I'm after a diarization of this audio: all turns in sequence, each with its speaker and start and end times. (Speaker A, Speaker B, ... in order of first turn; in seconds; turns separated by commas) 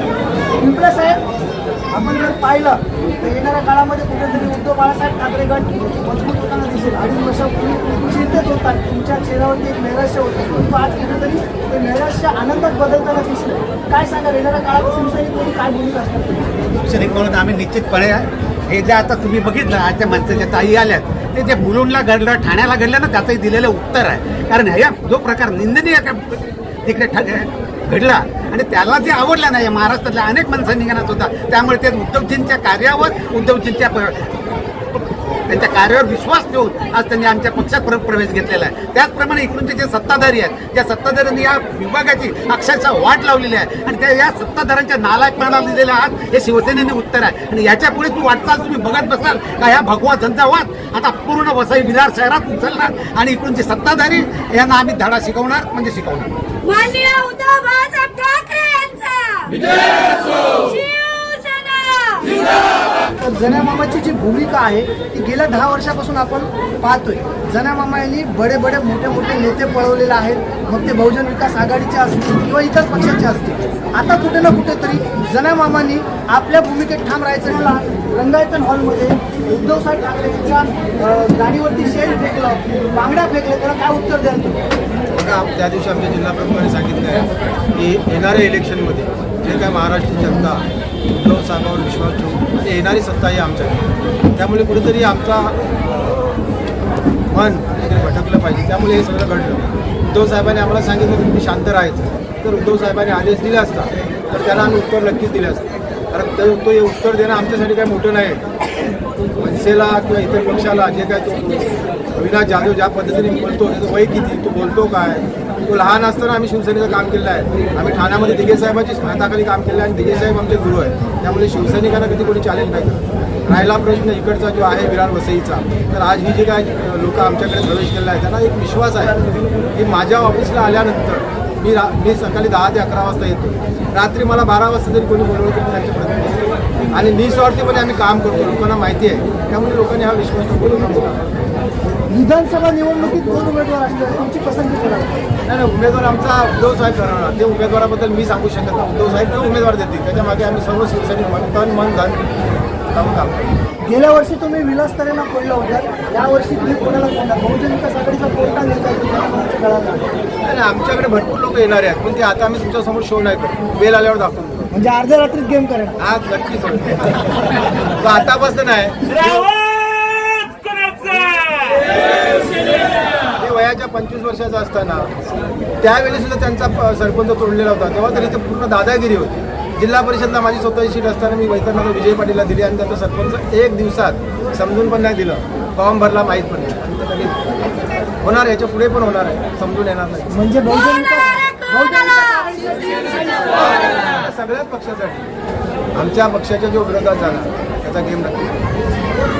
Speaker A: 0.6-1.2, Speaker A: 1.9-16.6, Speaker B: 16.7-34.3, Speaker B: 34.9-56.3, Speaker C: 56.6-62.9, Speaker A: 63.2-84.6, Speaker D: 85.1-90.6, Speaker D: 91.2-96.2, Speaker D: 97.3-108.4, Speaker D: 109.4-141.2, Speaker A: 142.1-145.2, Speaker D: 145.4-152.2, Speaker D: 152.9-153.5, Speaker A: 153.8-160.1, Speaker D: 160.4-164.7, Speaker A: 164.7-165.9, Speaker D: 166.0-167.2, Speaker D: 168.0-169.7, Speaker D: 171.2-171.7, Speaker D: 173.3-175.1, Speaker D: 175.8-187.5, Speaker D: 188.2-190.3, Speaker A: 190.3-193.6, Speaker D: 193.6-195.3, Speaker D: 195.9-198.6